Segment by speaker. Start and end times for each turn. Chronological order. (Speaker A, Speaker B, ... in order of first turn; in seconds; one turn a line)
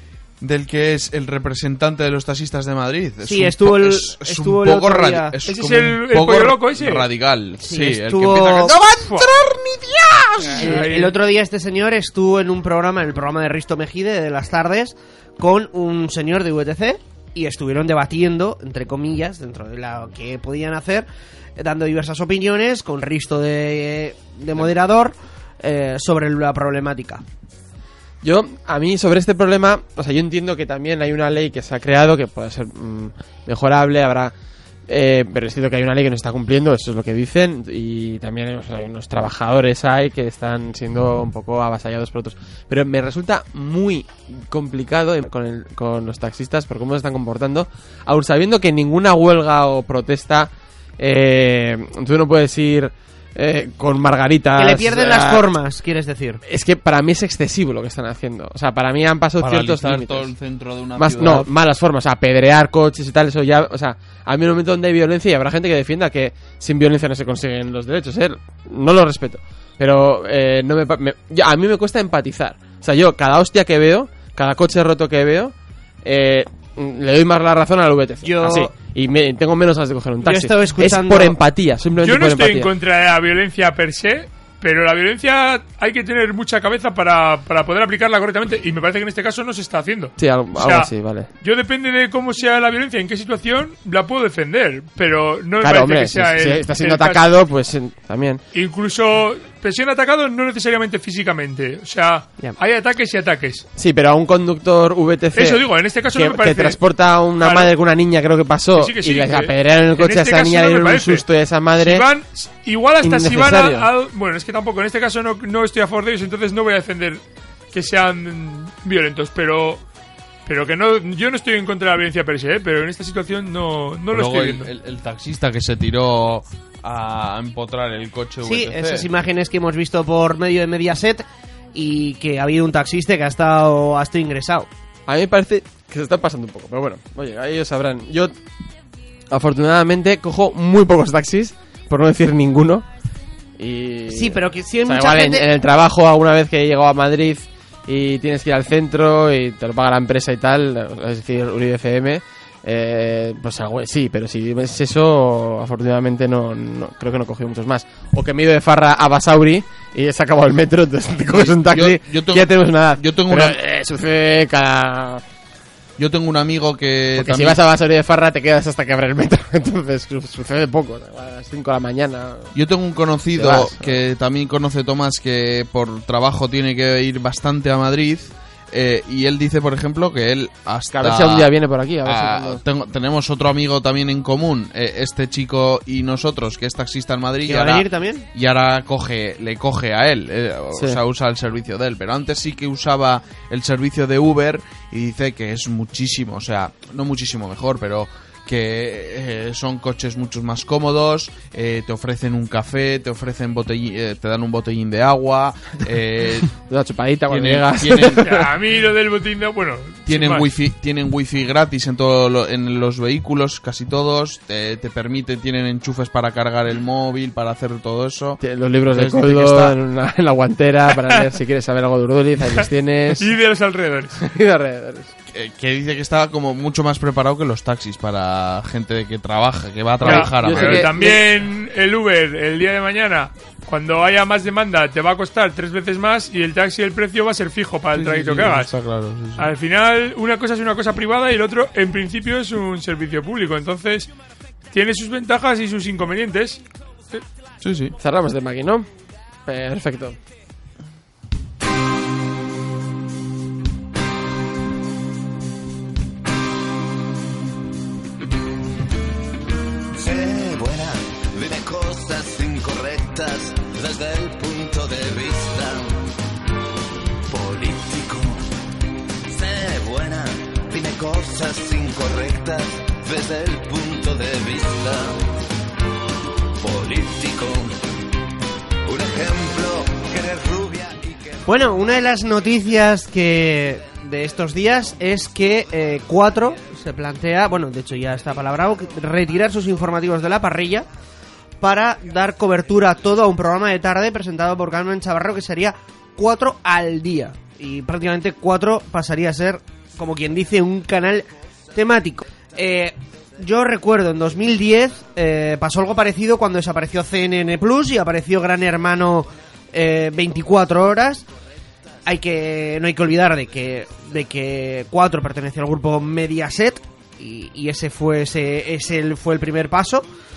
Speaker A: 0.4-10.6
Speaker B: 3.2-5.3
Speaker C: 5.5-7.1
Speaker B: 7.6-9.5
Speaker B: 10.4-27.2
Speaker C: 10.5-11.1
Speaker D: 28.2-34.3
Speaker D: 34.9-55.5
Speaker B: 54.6-56.4
Speaker D: 56.5-60.3
Speaker A: 59.4-61.5
Speaker D: 61.0-82.7
Speaker B: 78.2-78.7
Speaker B: 80.2-81.3
Speaker C: 82.0-90.9
Speaker D: 90.2-91.3
Speaker C: 91.4-97.3
Speaker D: 95.6-98.4
Speaker C: 98.5-103.6
Speaker D: 103.8-112.1
Speaker C: 105.3-106.8
Speaker C: 107.4-107.7
Speaker C: 108.8-111.2
Speaker C: 111.8-117.2
Speaker D: 113.0-113.9
Speaker C: 117.7-119.8
Speaker C: 120.5-124.7
Speaker A: 124.1-129.1
Speaker B: 128.4-134.7
Speaker D: 135.1-138.3
Speaker D: 139.3-142.8
Speaker D: 143.6-165.2
Speaker B: 144.1-145.5
Speaker A: 161.3-163.6
Speaker A: 166.0-167.6
Speaker D: 167.1-172.5
Speaker A: 172.5-181.5
Speaker D: 173.3-174.0
Speaker D: 180.9-182.6
Speaker A: 182.0-206.5
Speaker B: 187.4-188.2
Speaker D: 190.7-191.0
Speaker D: 206.6-208.5
Speaker A: 207.3-208.4
Speaker C: 208.2-210.5
Speaker A: 210.1-218.4
Speaker D: 218.4-223.3
Speaker A: 218.9-219.7
Speaker C: 223.2-224.2
Speaker D: 224.2-225.1
Speaker A: 225.3-230.9
Speaker D: 230.0-231.3
Speaker C: 230.0-238.7
Speaker A: 237.9-239.5
Speaker C: 239.4-244.1
Speaker C: 244.7-246.6
Speaker A: 247.6-247.9
Speaker D: 248.0-248.9
Speaker D: 249.4-250.2
Speaker E: 259.9-266.0
Speaker E: 267.3-268.4
Speaker E: 269.3-275.2
Speaker E: 276.6-277.8
Speaker E: 278.9-281.8
Speaker B: 281.4-290.9
Speaker B: 291.6-311.2
Speaker B: 312.1-320.1